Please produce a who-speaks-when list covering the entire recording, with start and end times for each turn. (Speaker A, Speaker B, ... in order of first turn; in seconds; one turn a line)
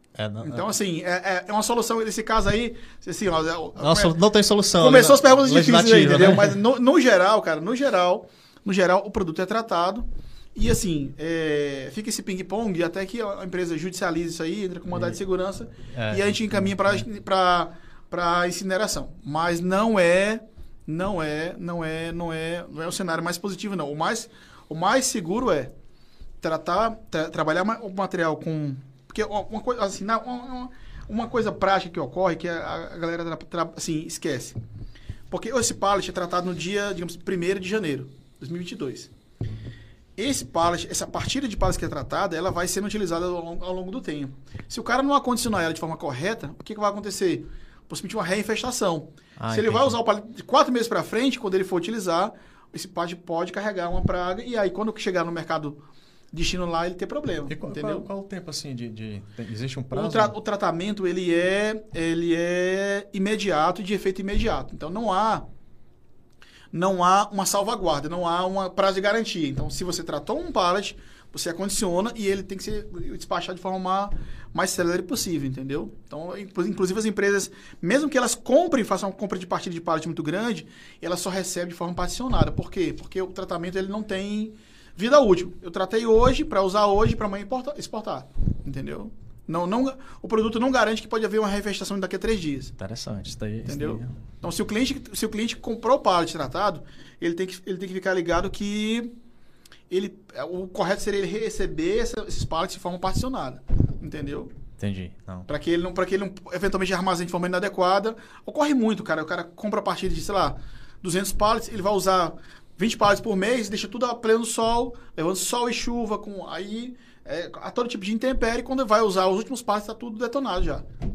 Speaker A: 0.1-0.7
Speaker B: 0.4-4.1
Speaker A: 3.8-6.6
Speaker B: 4.8-25.7
Speaker A: 14.9-15.2
Speaker A: 15.9-17.1
Speaker B: 26.4-34.6
Speaker B: 35.3-39.1
Speaker B: 40.2-55.8
Speaker A: 49.4-50.0
Speaker B: 56.3-58.1
Speaker A: 57.5-60.3
Speaker B: 59.9-65.5
Speaker B: 66.7-92.7
Speaker A: 92.8-94.1
Speaker B: 93.7-99.1
Speaker B: 99.9-104.5
Speaker A: 104.8-105.5
Speaker B: 105.5-120.8